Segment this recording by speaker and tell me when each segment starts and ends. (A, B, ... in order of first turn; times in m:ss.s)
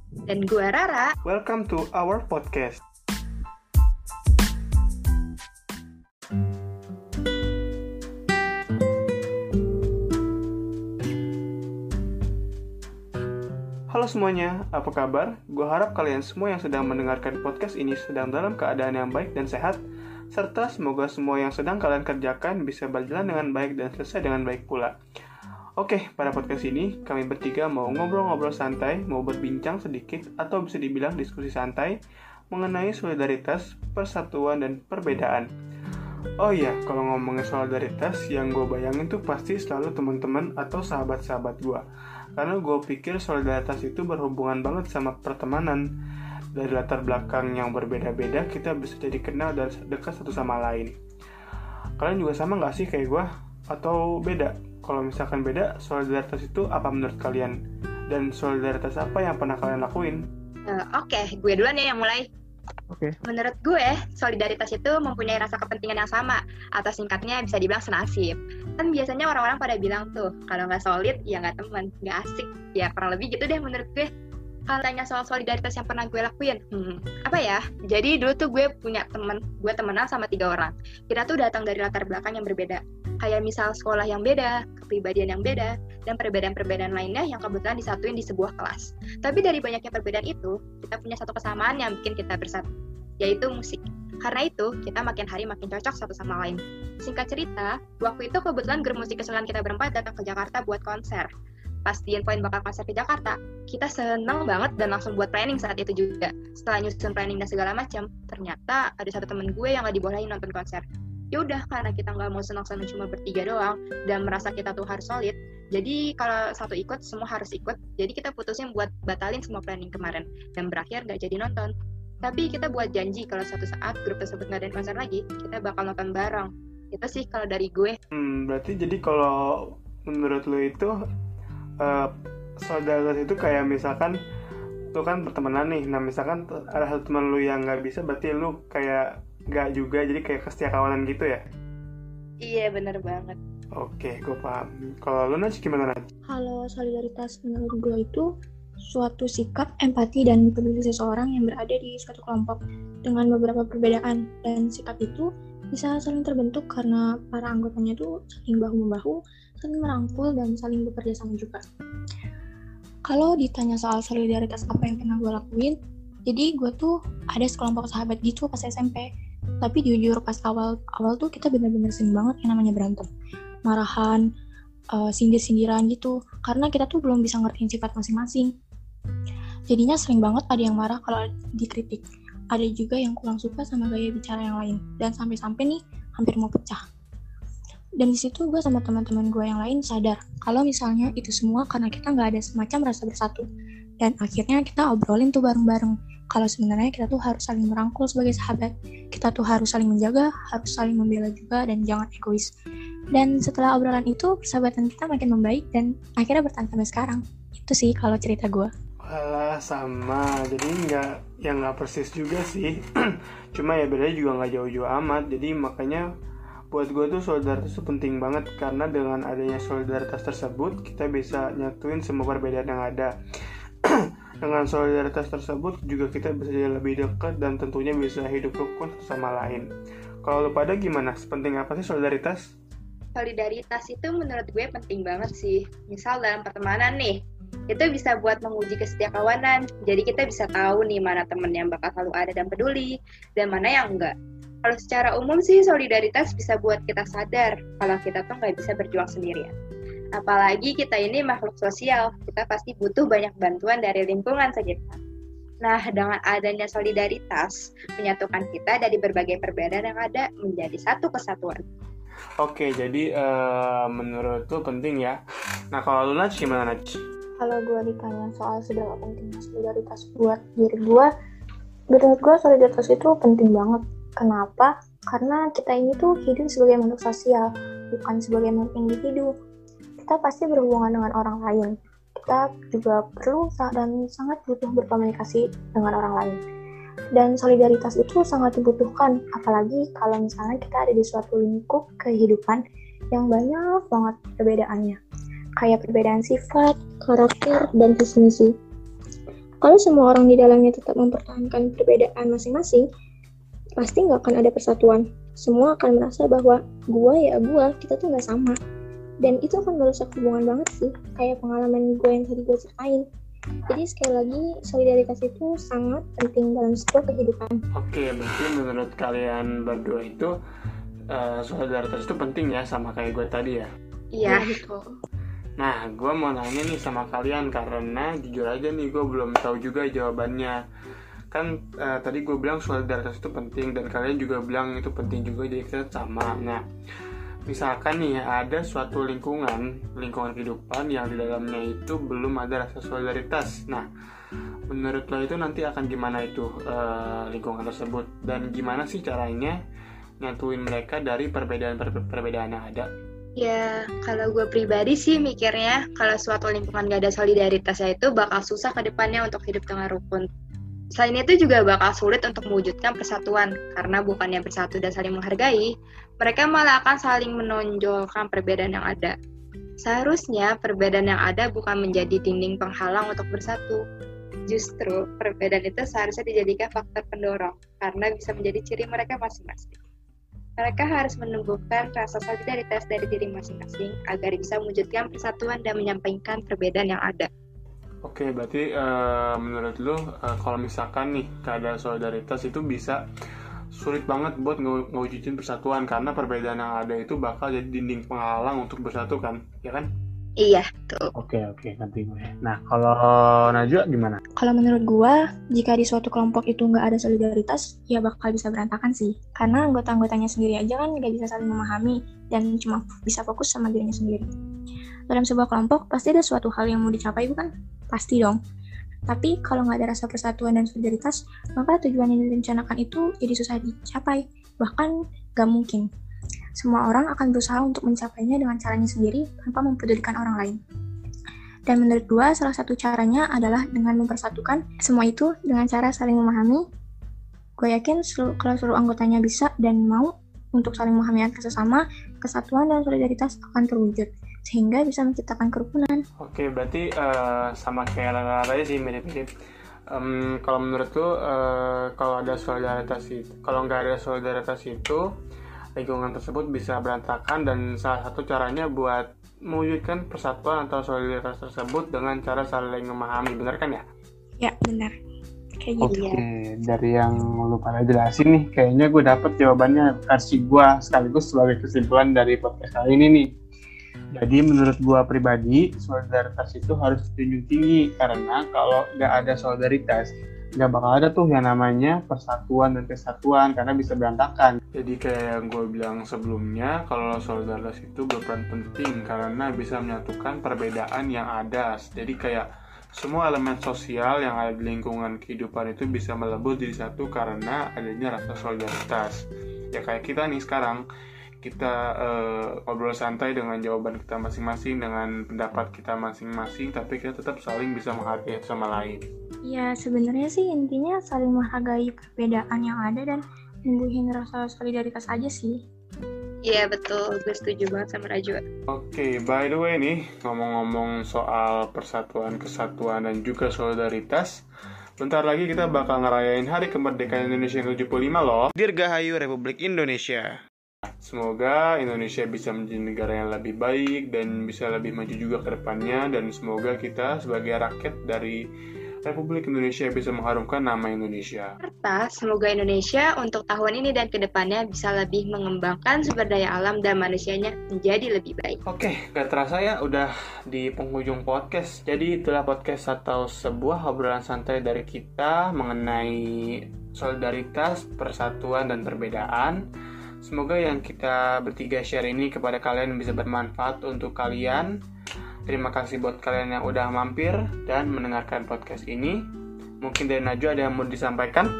0:00.3-0:01.1 A
0:01.2-0:02.8 B
0:13.9-0:19.8 B
0:20.3-0:24.9 B
0:25.8-0:32.0 B
0:32.5-0:35.5 B
0:36.4-0:41.8 B
0:42.4-0:45.8 B
0:46.6-0:51.0 B
0:52.0-0:57.6 B
0:58.1-1:00.3 B
1:00.7-1:02.3 A
1:03.2-1:14.1 A
1:14.7-1:32.7 A
1:33.2-1:41.3 A
1:41.9-2:01.7 A
2:02.2-2:08.0 A
2:08.1-2:10.9 B
2:11.8-2:14.2 B
2:14.9-2:21.4 B
2:22.4-2:23.4 A
2:23.8-2:26.1 B
2:26.3-2:28.3 C
2:28.9-2:41.6 C
2:43.1-2:49.1 C
2:49.6-2:53.1 C
2:53.7-2:54.2 C
2:54.9-2:58.5 C
2:59.7-3:06.8 C
3:08.0-3:13.4 C
3:14.0-3:22.5 C
3:23.1-3:28.7 C
3:29.0-3:36.1 B
3:36.7-3:43.1 B
3:43.8-3:49.7 B
3:50.2-3:52.5 B
3:53.2-3:57.2 A
3:57.7-4:09.5 A
4:10.2-4:15.0 A
4:15.6-4:21.6 A
4:22.4-4:25.2 B
4:25.7-4:27.0 B
4:27.4-4:31.1 C
4:31.9-4:39.3 C
4:40.0-4:46.4 C
4:47.1-4:52.6 C
4:53.1-4:55.0 C
4:55.6-4:58.5 C
4:59.6-5:02.9 C
5:03.8-5:08.5 C
5:09.2-5:13.0 C
5:13.7-5:17.6 C
5:17.7-5:20.3 B
5:21.1-5:23.7 B
5:24.1-5:24.6 A
5:24.2-5:24.9 C
5:25.6-5:30.6 B
5:31.3-5:36.6 B
5:37.5-5:43.9 B
5:44.7-5:49.6 B
5:50.2-5:52.9 B
5:53.4-6:00.2 A
6:01.0-6:05.6 A
6:06.2-6:09.1 A
6:09.8-6:13.8 A
6:14.5-6:19.8 A
6:20.6-6:27.3 A
6:28.0-6:33.0 B
6:33.7-6:39.9 B
6:40.4-6:41.1 A
6:41.1-6:44.2 B
6:44.4-6:54.3 C
6:55.1-6:58.4 C
6:59.1-7:05.9 C
7:06.6-7:10.6 C
7:11.7-7:16.6 C
7:17.6-7:26.0 C
7:26.2-7:29.3 B
7:29.9-7:35.0 B
7:35.8-7:43.8 B
7:44.4-7:44.9 C
7:45.6-7:46.0 C
7:45.8-7:53.3 B
7:45.9-7:46.2 A
7:54.1-8:20.8 B
8:21.4-8:29.0 B
8:29.4-8:35.6 C
8:36.5-8:38.4 A
8:38.7-8:44.4 B
8:45.0-8:50.4 B
8:51.0-8:58.4 B
8:59.0-9:01.5 B
9:01.6-9:08.6 A
9:08.7-9:19.6 B
9:20.2-9:24.7 B
9:25.5-9:29.2 B
9:29.8-9:31.5 B